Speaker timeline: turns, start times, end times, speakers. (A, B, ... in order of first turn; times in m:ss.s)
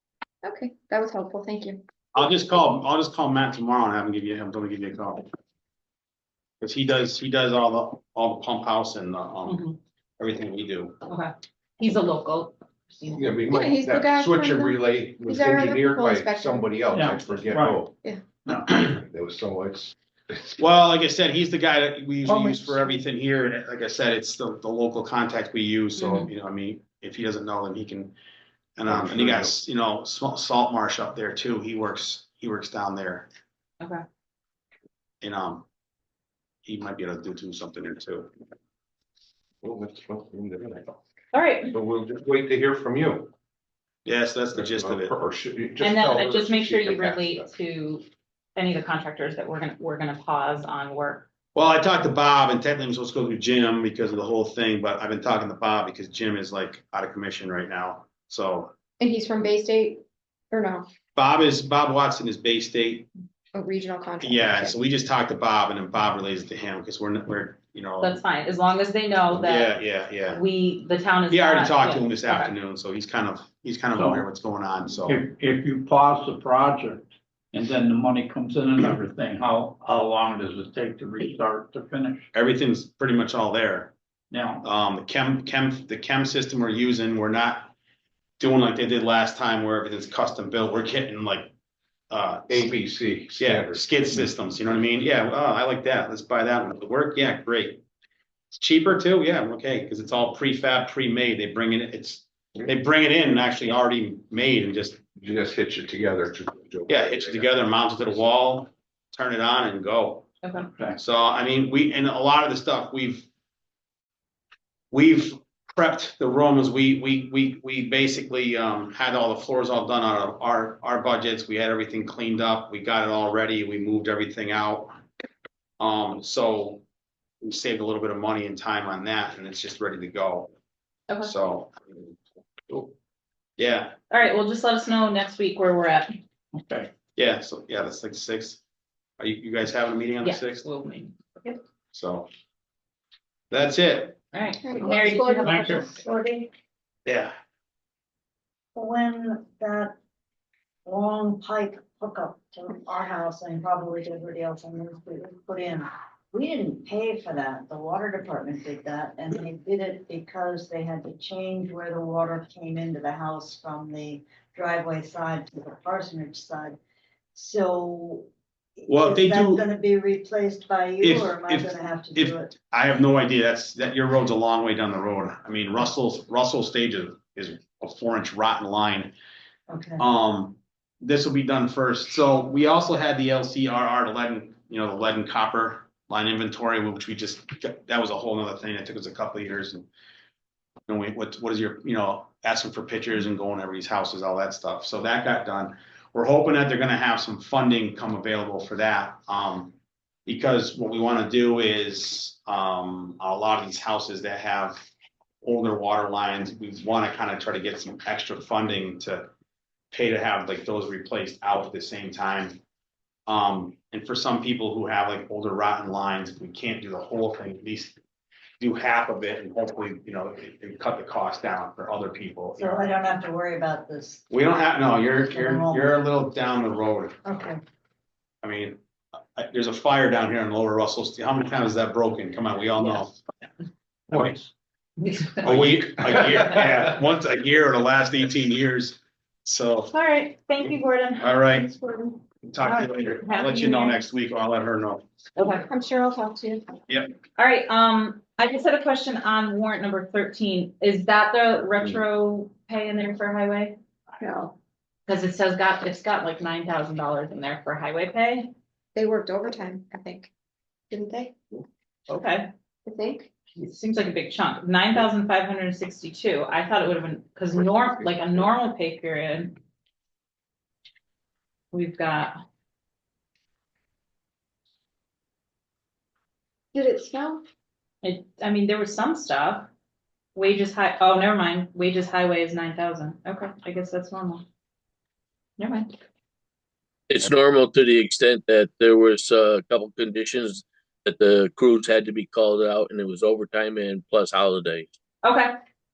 0:00.4-0:01.8 A
0:02.1-0:05.3 B
0:06.6-0:09.6 B
0:09.5-0:09.8 C
0:10.2-0:11.0 B
0:11.1-0:13.4 C
0:13.1-0:17.9 D
0:13.5-0:16.8 A
0:16.9-0:17.8 E
0:18.4-0:18.7 E
0:18.8-0:20.6 D
0:20.6-0:28.2 B
0:26.0-0:26.3 C
0:28.8-0:33.3 B
0:28.9-0:29.5 D
0:35.2-0:35.6 B
0:36.6-0:38.3 B
0:39.6-0:41.0 D
0:41.3-0:41.7 C
0:41.7-0:43.3 D
0:44.0-0:45.1 B
0:44.5-0:47.5 D
0:45.8-0:51.3 C
0:51.5-0:58.7 B
0:59.0-1:00.9 A
1:01.2-1:03.1 B
1:03.5-1:04.8 A
1:04.2-1:08.2 B
1:08.0-1:09.7 C
1:09.3-1:10.4 B
1:10.3-1:12.5 C
1:11.3-1:15.2 B
1:13.9-1:14.3 E
1:15.0-1:22.2 E
1:22.3-1:23.9 B
1:24.3-1:24.6 E
1:24.6-1:27.7 B
1:28.4-1:31.5 B
1:32.1-1:32.7 B
1:32.5-1:33.9 D
1:33.4-1:37.8 B
1:38.5-1:45.0 B
1:45.2-1:47.7 D
1:46.9-1:50.3 B
1:51.0-1:53.3 B
1:54.9-2:05.0 B
2:05.8-2:06.8 B
2:07.4-2:10.5 B
2:11.2-2:12.0 B
2:13.6-2:13.9 B
2:14.1-2:16.1 C
2:16.5-2:16.9 E
2:17.2-2:18.6 B
2:19.2-2:20.6 B
2:20.2-2:21.6 C
2:21.9-2:22.3 B
2:23.5-2:24.2 B
2:24.3-2:25.9 C
2:24.6-2:25.6 A
2:25.4-2:25.9 E
2:25.6-2:26.5 F
2:27.0-2:27.3 B
2:28.7-2:29.9 F
2:30.8-2:46.8 F
2:47.3-2:48.3 F
2:48.8-2:52.5 F
2:48.9-2:49.6 B
2:51.0-2:59.1 B
2:59.7-3:00.0 F
3:00.0-3:09.9 B
3:10.9-3:24.8 B
3:25.4-3:29.3 B
3:29.9-3:32.6 B
3:33.3-3:38.0 B
3:38.6-3:42.9 B
3:42.6-3:44.2 F
3:44.3-3:47.2 B
3:45.2-3:46.0 F
3:47.2-3:47.6 F
3:48.4-3:53.1 B
3:55.0-3:55.6 C
3:55.4-3:59.9 B
3:59.9-4:01.4 C
4:01.2-4:01.7 B
4:01.5-4:02.2 A
4:02.5-4:05.0 B
4:02.6-4:04.0 C
4:05.4-4:05.7 C
4:05.4-4:06.6 A
4:06.9-4:07.1 B
4:07.4-4:13.8 C
4:14.2-4:14.5 A
4:15.1-4:18.5 C
4:18.9-4:20.3 A
4:20.9-4:21.3 A
4:22.1-4:22.5 C
4:22.8-4:23.3 A
4:23.6-4:29.6 C
4:31.7-4:32.3 C
4:36.7-4:37.4 A
4:38.0-4:39.7 C
4:40.3-4:44.4 C
4:45.6-4:45.9 C
4:47.1-4:54.9 G
4:55.2-4:55.5 C